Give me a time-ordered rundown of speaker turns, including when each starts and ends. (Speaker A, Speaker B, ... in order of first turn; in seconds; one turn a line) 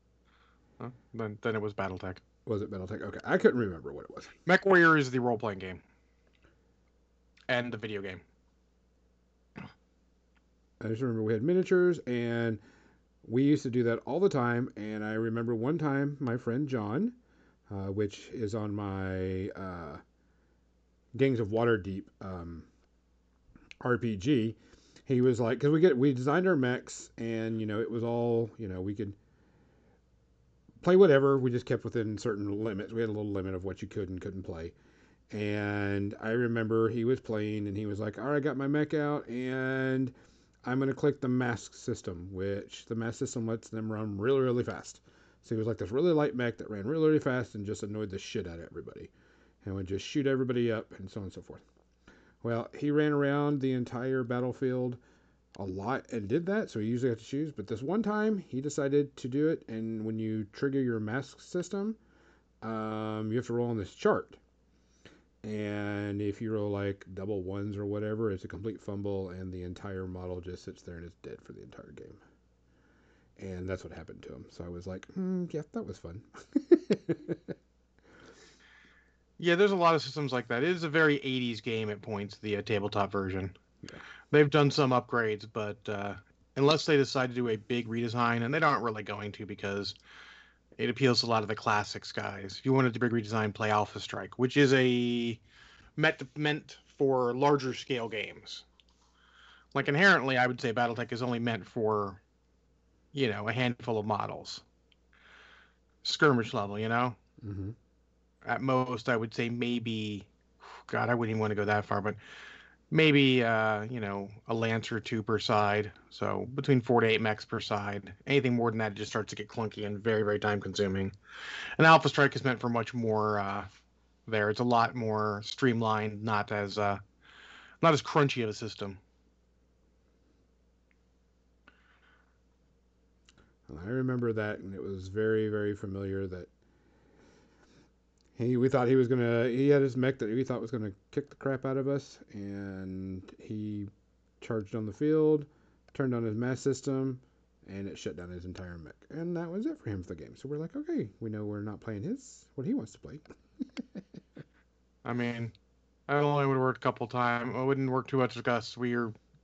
Speaker A: 0.8-2.2
Speaker B: 2.5-4.3
Speaker A: 4.5-5.8
Speaker A: 7.5-8.2
Speaker B: 10.8-12.6
Speaker B: 13.2-17.2
Speaker B: 17.7-20.0
Speaker B: 21.1-22.7
Speaker B: 23.8-29.2
Speaker B: 30.8-34.7
Speaker B: 35.3-40.1
Speaker B: 40.6-49.1
Speaker B: 49.6-51.6
Speaker B: 52.4-55.0
Speaker B: 55.5-62.0
Speaker B: 62.6-64.4
Speaker B: 65.4-72.2
Speaker B: 73.4-77.5
Speaker A: 79.4-83.5
Speaker A: 84.3-90.0
Speaker A: 90.8-95.4
Speaker A: 96.0-98.7
Speaker A: 99.7-102.2
Speaker A: 103.1-104.6
Speaker A: 106.0-107.2
Speaker B: 107.4-107.8
Speaker A: 108.5-110.3
Speaker A: 110.9-112.2
Speaker A: 112.9-121.1
Speaker A: 121.8-123.7
Speaker A: 124.3-127.0
Speaker A: 127.8-129.0
Speaker B: 133.7-136.5
Speaker B: 138.4-143.9
Speaker B: 144.4-153.2
Speaker B: 153.8-154.0
Speaker A: 155.1-155.5
Speaker A: 156.1-159.2